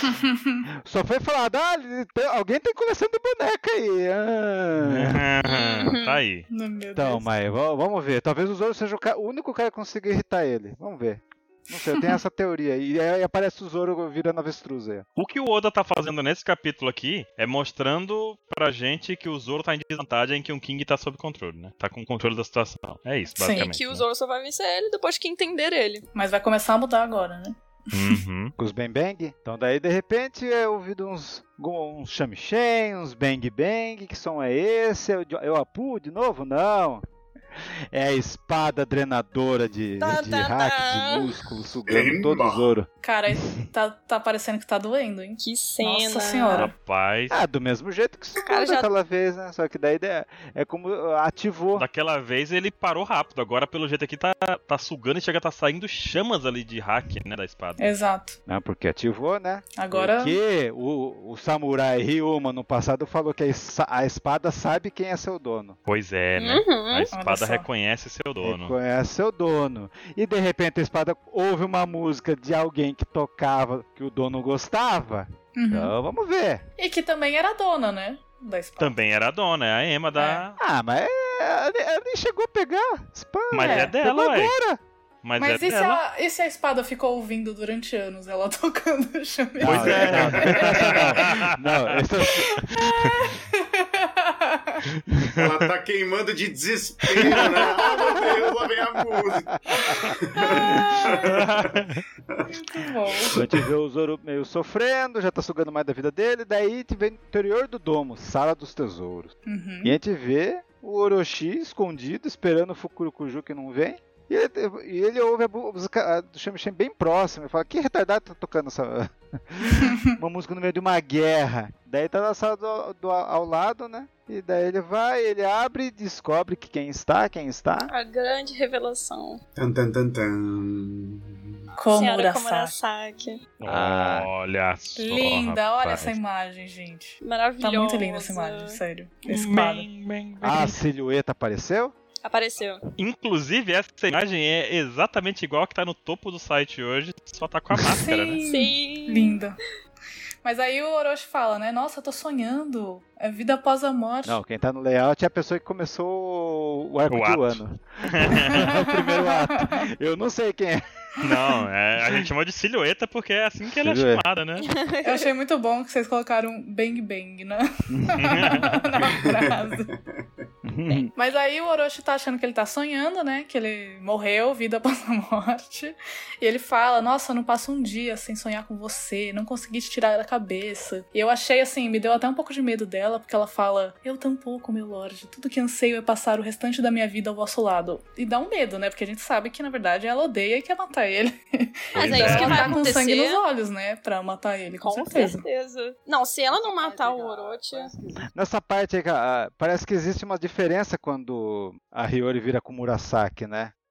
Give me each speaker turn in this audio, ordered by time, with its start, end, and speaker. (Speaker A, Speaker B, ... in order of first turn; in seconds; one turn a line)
Speaker A: 0.2-0.6
Speaker B: 0.8-5.2
Speaker C: 4.8-6.5
Speaker D: 5.4-6.2
Speaker A: 6.5-7.3
Speaker B: 6.9-15.1
Speaker A: 11.9-12.2
Speaker C: 15.2-24.1
Speaker A: 23.4-23.7
Speaker D: 23.5-26.0
Speaker A: 26.1-28.2
Speaker C: 27.9-28.5
Speaker B: 28.6-37.0
Speaker B: 37.9-42.9
Speaker D: 40.0-41.4
Speaker E: 41.9-42.7
Speaker A: 43.0-46.7
Speaker D: 45.4-46.7
Speaker C: 46.5-47.4
Speaker B: 47.3-51.9
Speaker D: 48.4-48.9
Speaker C: 51.8-57.9
Speaker A: 57.8-58.4
Speaker B: 58.5-65.8
Speaker A: 59.8-60.4
Speaker C: 65.8-68.7
Speaker D: 66.3-67.1
Speaker A: 67.1-67.7
Speaker B: 68.4-76.6
Speaker A: 75.5-75.9
Speaker A: 76.8-78.9
Speaker C: 78.8-80.6
Speaker A: 80.1-80.4
Speaker B: 80.6-84.8
Speaker C: 83.5-84.5
Speaker A: 83.6-83.9
Speaker C: 85.2-86.0
Speaker A: 85.4-91.0
Speaker B: 89.6-92.8
Speaker C: 89.6-92.0
Speaker A: 92.3-94.8
Speaker C: 95.2-95.7
Speaker E: 95.3-101.7
Speaker A: 97.3-98.3
Speaker A: 99.7-101.2
Speaker B: 99.9-100.6
Speaker C: 101.2-102.0
Speaker A: 102.5-103.4
Speaker E: 103.3-103.6
Speaker B: 103.3-127.9
Speaker A: 109.5-110.0
Speaker D: 127.9-129.4
Speaker E: 129.6-131.4
Speaker A: 131.8-132.8
Speaker D: 131.9-133.4
Speaker C: 133.6-136.1
Speaker B: 133.6-134.3
Speaker A: 134.9-139.9
Speaker D: 137.2-138.8
Speaker C: 139.3-140.8
Speaker B: 140.4-141.9
Speaker D: 142.2-142.8
Speaker C: 143.0-148.4
Speaker A: 148.0-149.6
Speaker D: 148.4-149.4
Speaker A: 150.4-154.4
Speaker B: 154.2-160.8
Speaker C: 157.1-158.7
Speaker A: 158.5-159.8
Speaker C: 161.2-164.7
Speaker B: 163.7-164.2
Speaker D: 164.6-165.3
Speaker A: 165.0-169.9
Speaker B: 167.9-168.7
Speaker C: 168.2-168.8
Speaker E: 169.0-170.3
Speaker B: 170.6-171.1
Speaker A: 171.1-195.4
Speaker C: 191.9-192.8
Speaker D: 191.9-193.4
Speaker D: 194.8-197.9
Speaker B: 196.5-203.7